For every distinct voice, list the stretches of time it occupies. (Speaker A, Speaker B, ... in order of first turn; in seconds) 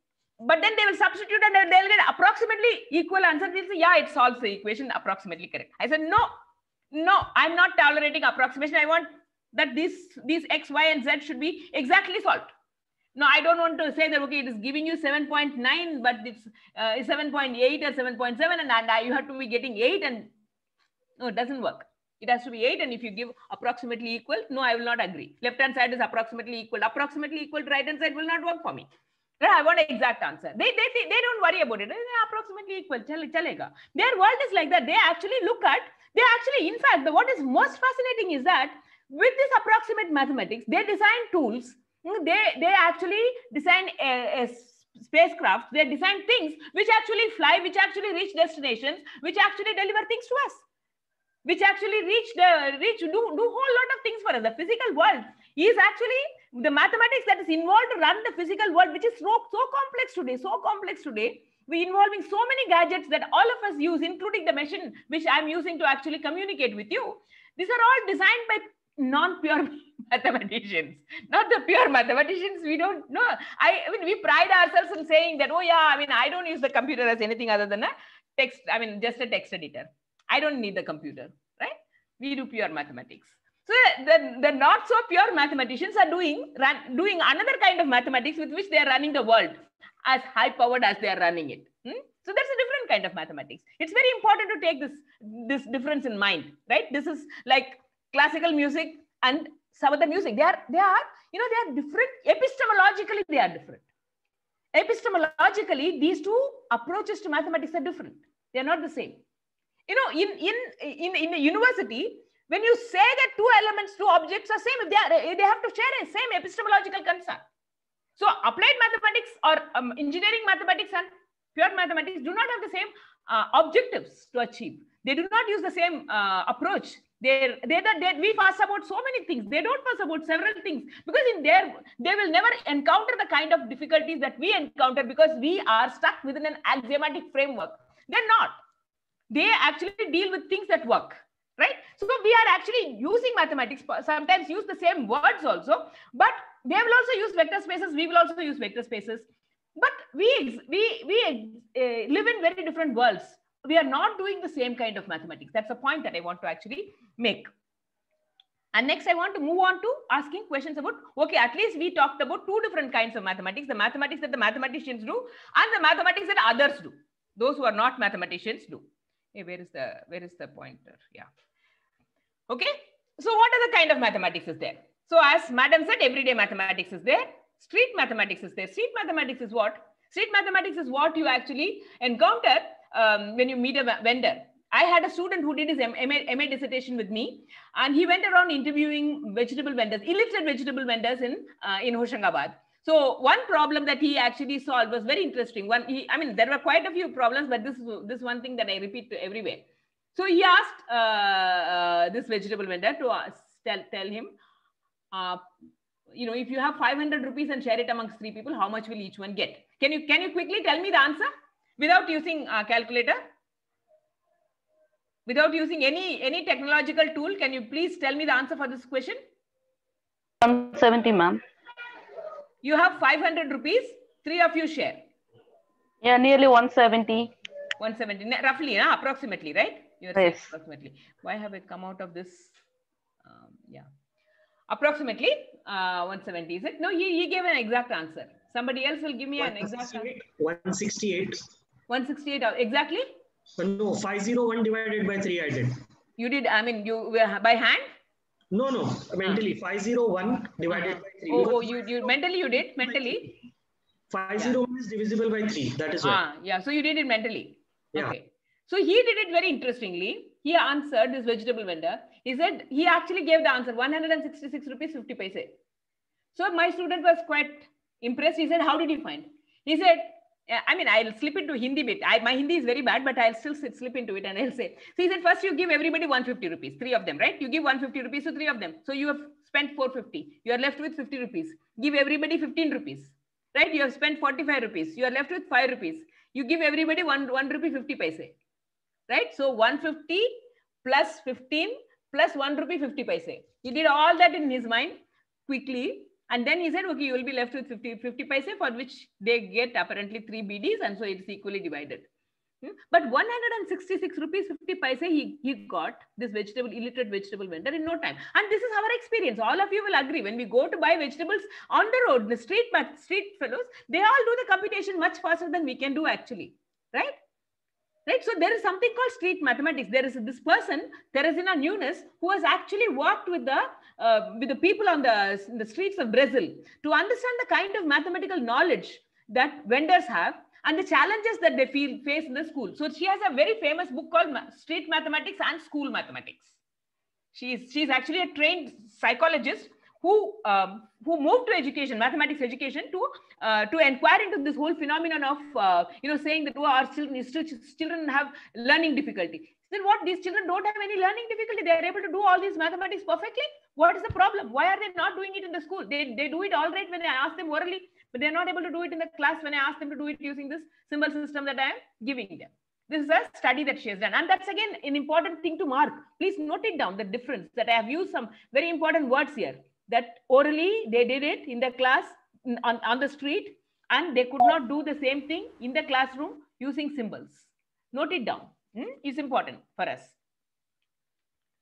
Speaker A: 0.4-6.3, 6.9-12.5, 13.1-20.3, 21.2-28.9, 29.4-50.6, 51.4-103.8, 104.7-109.2, 109.9-117.4, 118.2-138.6, 139.3-149.2, 149.8-157.5, 158.7-171.3, 172.5-199.6, 200.1-204.3, 205.1-205.4, 206.1-213.2, 215.2-219.2, 222.6-225.0, 227.8-232.6, 233.2-233.8, 234.7-240.1, 241.9-243.1, 246.2-247.9, 250.7-253.2, 256.0-265.6, 266.3-288.3, 289.1-302.1, 302.6-317.1, 318.1-336.5, 337.3-380.1
Speaker B: 220.4-221.4, 226.0-227.3, 230.2-230.5
Speaker C: 239.4-241.4, 243.6-245.8, 248.5-252.1, 254.1-256.2